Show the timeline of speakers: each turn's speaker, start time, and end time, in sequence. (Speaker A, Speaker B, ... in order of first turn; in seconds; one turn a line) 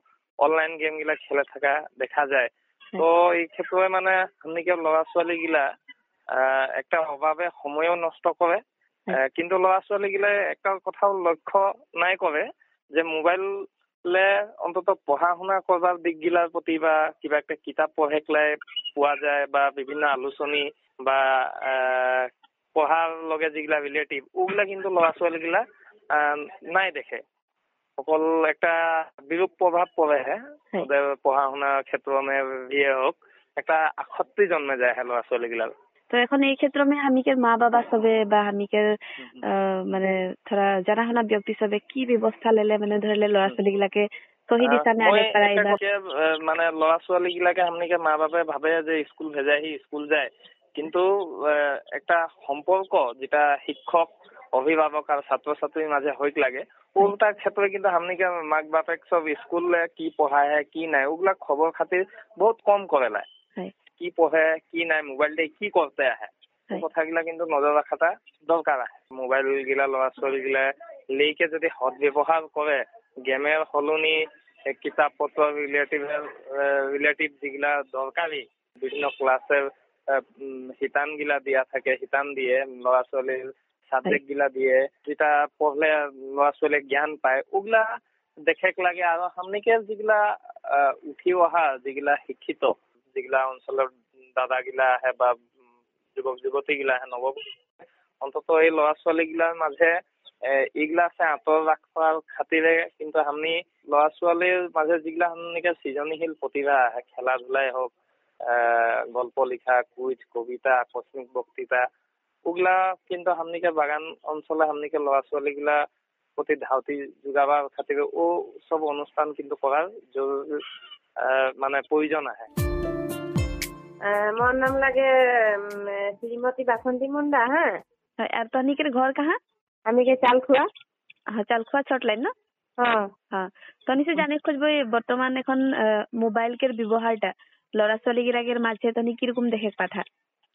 Speaker A: 0.4-5.7
Speaker A: 6.3-8.6
Speaker A: 9.1-13.5
Speaker A: 14.1-25.6
Speaker A: 26.1-27.2
Speaker A: 28.0-35.7
Speaker B: 36.1-38.9
Speaker B: 39.4-45.8
Speaker A: 44.6-63.3
Speaker A: 64.0-87.9
Speaker A: 88.5-95.4
Speaker A: 96.2-97.5
Speaker A: 98.2-99.9
Speaker A: 100.5-107.9
Speaker A: 108.5-111.8
Speaker A: 112.5-115.8
Speaker A: 116.4-120.6
Speaker A: 121.2-122.5
Speaker C: 124.1-127.8
Speaker B: 128.2-129.4
Speaker C: 129.9-130.7
Speaker B: 131.3-132.3
Speaker C: 132.8-133.1
Speaker B: 133.3-140.0